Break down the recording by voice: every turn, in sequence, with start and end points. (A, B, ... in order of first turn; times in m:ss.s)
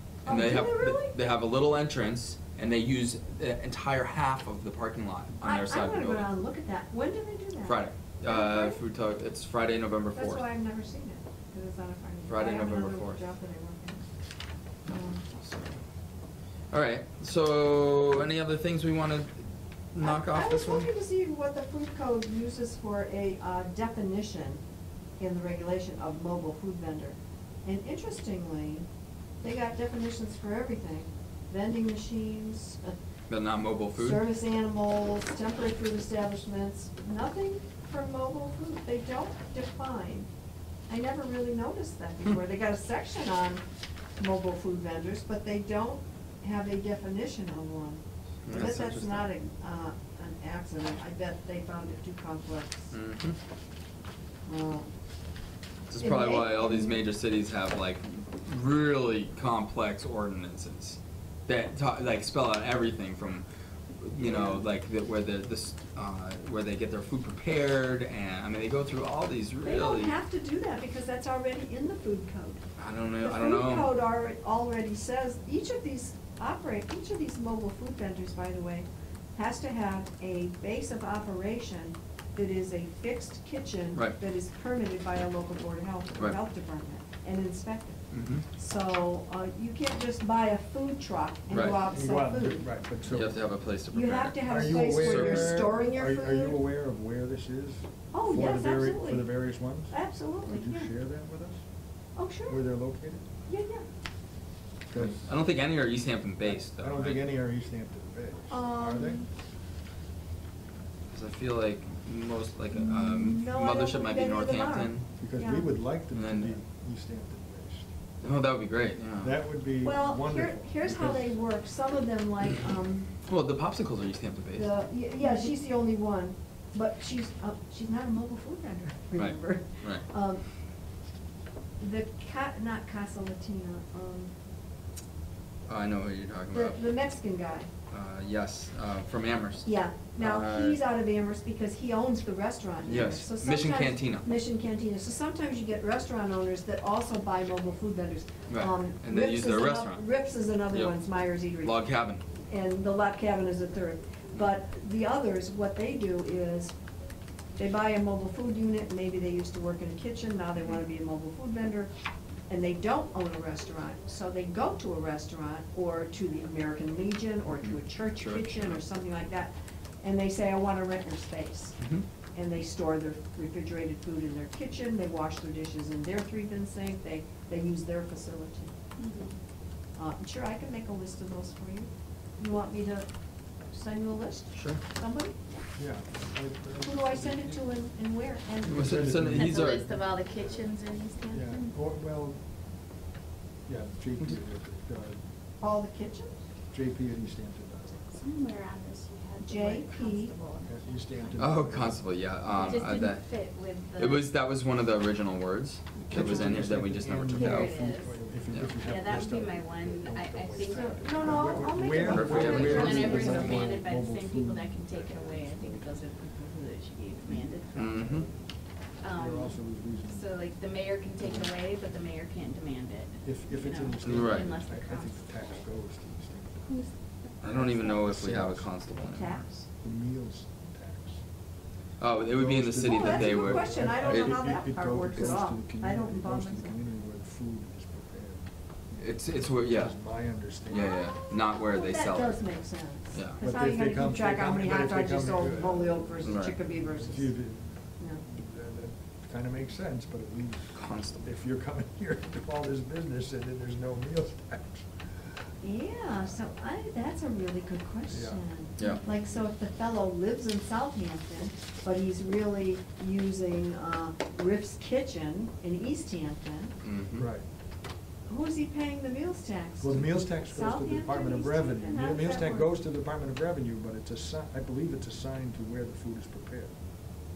0:00.2-0:01.1 A
0:00.2-0:06.3 B
0:05.4-0:08.8 A
0:07.6-0:10.4 B
0:10.1-0:14.0 A
0:12.3-0:13.2 B
0:14.9-0:15.2 A
0:14.9-0:15.8 B
0:16.7-0:20.9 B
0:20.0-0:24.6 A
0:25.2-0:28.9 A
0:29.4-0:33.0 A
0:33.3-0:34.2 B
0:33.9-0:40.3 A
0:40.9-0:43.6 A
0:44.2-0:52.9 A
0:48.4-0:49.3 B
0:52.9-0:53.4 B
0:54.5-0:54.9 A
0:55.9-1:03.4 B
0:56.0-0:57.0 A
1:04.0-1:10.1 B
1:04.2-1:04.6 A
1:09.6-1:12.6 A
1:12.8-1:13.9 B
1:13.2-1:28.0 A
1:28.1-1:28.4 B
1:28.5-1:32.7 A
1:31.5-1:31.8 B
1:31.8-1:33.4 C
1:33.1-1:35.6 B
1:33.9-1:36.6 A
1:34.4-1:39.9 C
1:38.1-1:39.3 A
1:39.9-1:40.9 A
1:40.4-1:41.6 C
1:42.2-1:42.6 A
1:42.5-1:43.2 C
1:43.5-1:43.8 A
1:44.9-1:45.3 C
1:45.0-1:47.3 B
1:46.5-1:49.2 C
1:48.5-1:49.3 A
1:51.1-1:55.0 B
1:52.7-1:55.7 A
1:55.2-1:57.9 C
1:56.1-1:56.6 B
1:58.2-1:59.4 B
1:59.2-2:01.4 C
1:59.8-2:03.1 A
2:03.2-2:04.7 B
2:04.5-2:10.4 A
2:09.2-2:10.0 B
2:11.8-2:14.3 A
2:15.7-2:16.8 B
2:16.5-2:17.7 A
2:17.9-2:20.8 B
2:19.6-2:36.7 A
2:22.8-2:24.2 B
2:28.5-2:30.0 B
2:31.6-2:32.2 B
2:37.6-2:41.9 A
2:42.5-2:51.8 A
2:47.5-2:48.8 B
2:51.8-2:52.0 B
2:52.3-2:58.7 A
2:59.0-2:59.4 D
3:00.0-3:03.1 A
3:03.7-3:05.4 A
3:04.5-3:04.8 B
3:05.8-3:07.6 C
3:06.8-3:09.2 A
3:08.6-3:09.9 B
3:08.7-3:10.7 C
3:09.3-3:11.7 D
3:11.3-3:12.4 C
3:13.7-3:15.2 C
3:15.6-3:16.4 A
3:16.7-3:18.0 C
3:18.1-3:21.4 D
3:19.4-3:20.4 A
3:20.6-3:22.0 C
3:21.4-3:23.2 B
3:22.5-3:24.3 D
3:24.0-3:27.7 B
3:26.0-3:36.1 C
3:27.3-3:28.2 D
3:28.8-3:38.3 D
3:30.6-3:33.6 A
3:32.0-3:33.7 B
3:37.7-3:38.3 B
3:38.0-3:38.3 C
3:39.0-3:45.6 D
3:39.1-3:40.3 C
3:41.2-3:41.5 C
3:43.2-3:46.7 C
3:44.0-3:44.5 B
3:47.4-3:49.4 B
3:47.4-3:48.7 C
3:48.9-3:49.7 A
3:49.8-3:51.2 C
3:52.0-3:54.3 B
3:52.2-4:00.9 C
3:52.8-3:56.8 A
3:59.0-3:59.9 B
4:00.6-4:02.4 B
4:00.7-4:07.3 A
4:03.1-4:03.4 B
4:03.4-4:06.2 C
4:06.2-4:06.6 B
4:06.9-4:14.9 C
4:10.7-4:11.3 B
4:15.6-4:26.8 A
4:18.1-4:18.4 C
4:26.8-4:27.3 B
4:27.2-4:27.4 C
4:28.3-4:32.7 A
4:29.8-4:36.7 C